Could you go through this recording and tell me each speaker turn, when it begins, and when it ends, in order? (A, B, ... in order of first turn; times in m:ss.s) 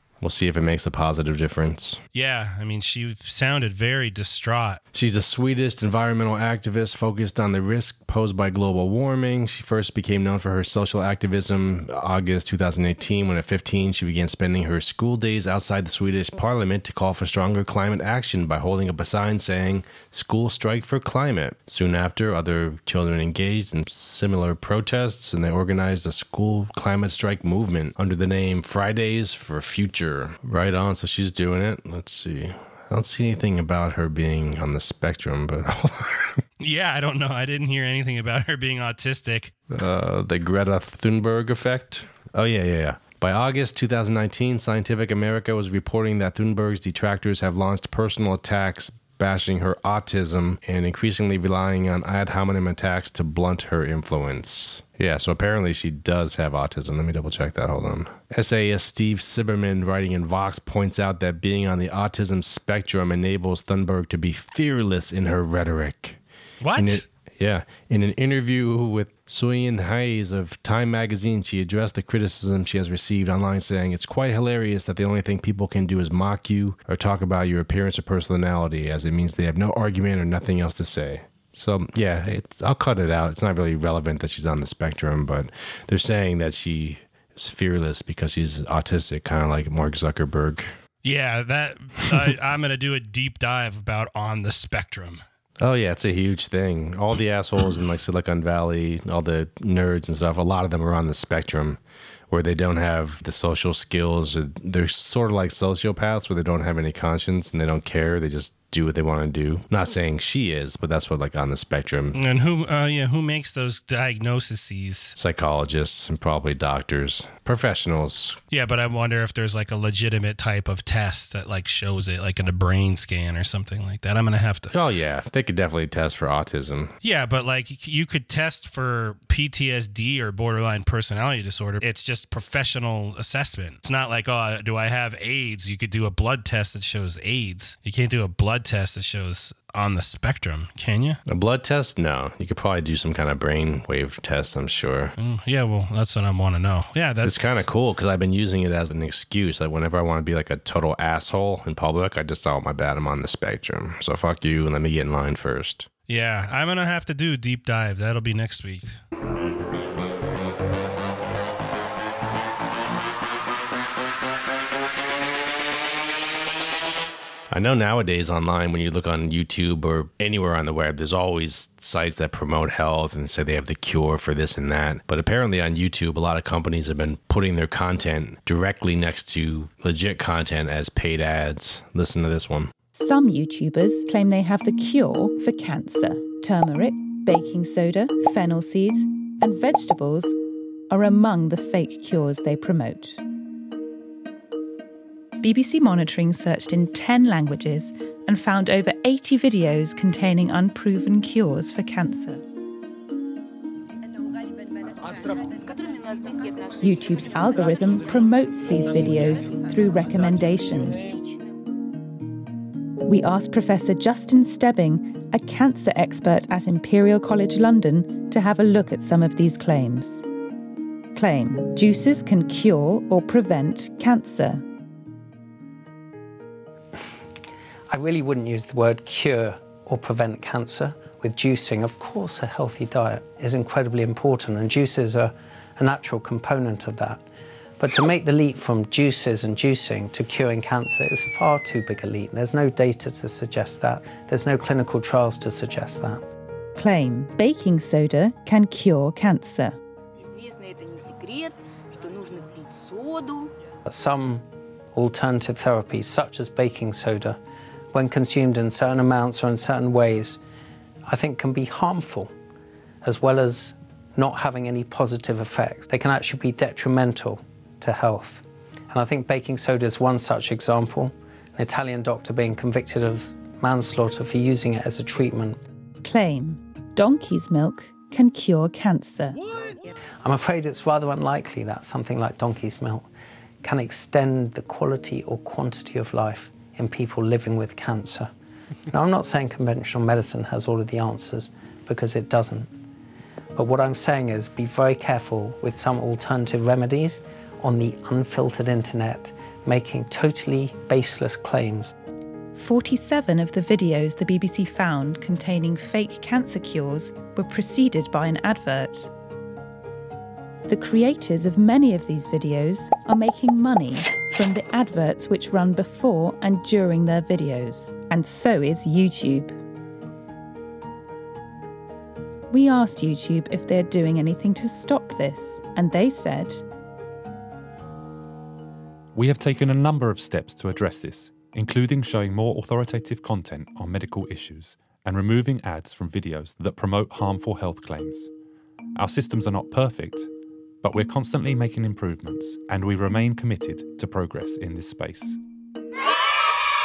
0:00.2-0:02.0 A
0:02.1-0:04.8 B
0:04.9-0:36.3 A
0:36.6-0:39.5 B
0:39.7-1:06.2 A
1:06.6-1:07.0 B
1:06.8-1:30.7 A
1:31.0-1:35.2 B
1:35.6-1:52.2 A
1:52.1-1:55.1 B
1:55.1-1:58.4 A
1:58.5-2:04.7 B
2:04.7-2:06.9 A
2:07.0-2:21.2 B
2:21.2-2:25.1 A
2:25.2-2:27.6 B
2:27.2-2:35.9 A
2:36.1-2:39.0 B
2:47.5-3:02.7 A
3:02.9-3:10.4 C
3:10.9-3:13.2 C
3:15.4-3:22.4 C
3:26.8-3:31.1 C
3:33.0-3:40.2 C
3:41.1-3:44.6 C
3:47.9-3:57.2 D
3:57.8-4:06.2 D
4:06.8-4:09.8 C
4:13.9-4:14.4 D
4:14.9-4:17.4 D
4:17.9-4:20.4 D
4:21.1-4:22.3 D
4:23.0-4:35.6 D
4:36.0-4:39.4 C
4:40.2-4:43.1 D
4:43.6-4:48.3 D
4:48.9-4:52.7 D
4:53.5-5:01.9 D
5:02.6-5:09.1 C
5:10.6-5:19.6 C
5:22.5-5:26.6 C
5:29.1-5:38.3 E
5:38.9-5:40.3 E
5:40.8-5:45.4 E